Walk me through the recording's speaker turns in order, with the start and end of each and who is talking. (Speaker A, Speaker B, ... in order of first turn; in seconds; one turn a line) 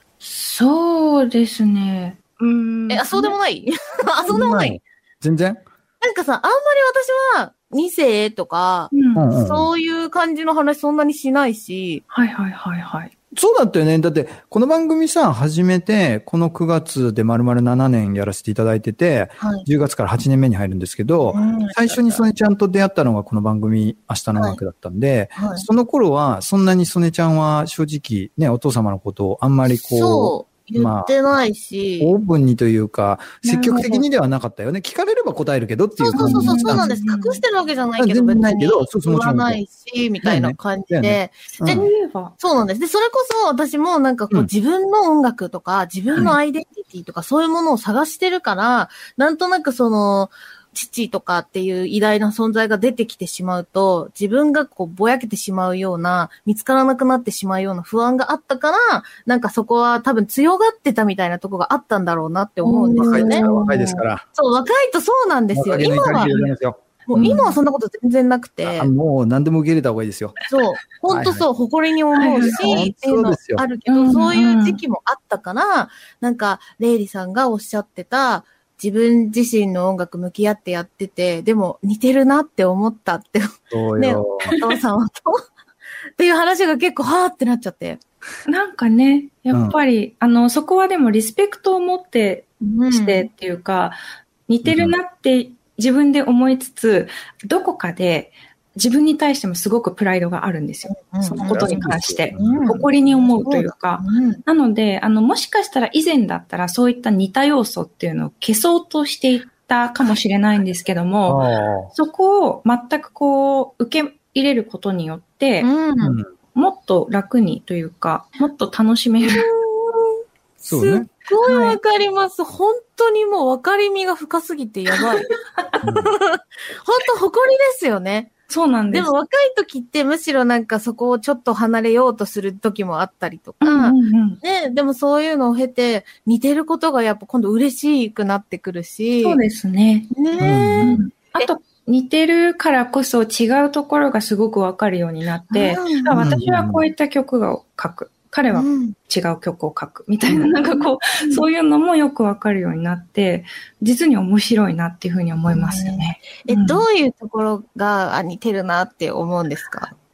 Speaker A: 0.2-3.4
Speaker B: 2.9-4.8
Speaker C: 4.3-5.6
Speaker B: 6.0-12.0
Speaker A: 8.9-9.2
Speaker C: 9.2-9.7
Speaker A: 12.1-13.1
Speaker C: 13.3-31.1
Speaker B: 19.4-19.7
Speaker B: 21.3-22.2
Speaker B: 24.4-24.6
Speaker B: 25.4-25.7
Speaker B: 29.7-32.1
Speaker C: 32.0-36.9
Speaker A: 33.4-34.0
Speaker B: 36.0-63.5
Speaker A: 36.1-37.4
Speaker C: 38.0-39.6
Speaker C: 40.2-41.9
Speaker A: 41.6-42.3
Speaker A: 62.6-64.0
Speaker C: 63.0-64.2
Speaker B: 64.3-66.4
Speaker C: 65.5-67.5
Speaker A: 65.9-66.5
Speaker B: 67.1-68.9
Speaker A: 67.2-67.5
Speaker C: 68.6-70.4
Speaker B: 70.5-85.4
Speaker C: 71.1-71.5
Speaker A: 72.2-72.9
Speaker C: 72.3-73.6
Speaker A: 73.9-74.8
Speaker C: 83.7-84.5
Speaker B: 86.2-88.0
Speaker A: 88.5-115.7
Speaker C: 89.5-89.8
Speaker B: 92.6-93.3
Speaker C: 94.6-94.9
Speaker B: 100.9-104.4
Speaker C: 101.4-102.7
Speaker C: 111.3-111.9
Speaker B: 115.6-116.2
Speaker C: 116.0-116.3
Speaker A: 116.5-119.5
Speaker B: 119.2-125.3
Speaker C: 120.7-121.1
Speaker A: 121.4-121.8
Speaker A: 125.0-125.3
Speaker C: 125.8-126.1
Speaker B: 125.8-128.3
Speaker A: 128.5-129.1
Speaker B: 128.9-139.4
Speaker A: 133.6-134.4
Speaker A: 139.2-140.1
Speaker B: 140.1-141.5
Speaker C: 140.4-141.0
Speaker A: 140.8-156.8
Speaker B: 145.5-146.2
Speaker C: 146.1-146.8
Speaker B: 148.5-149.0
Speaker B: 150.6-151.4
Speaker B: 155.5-159.9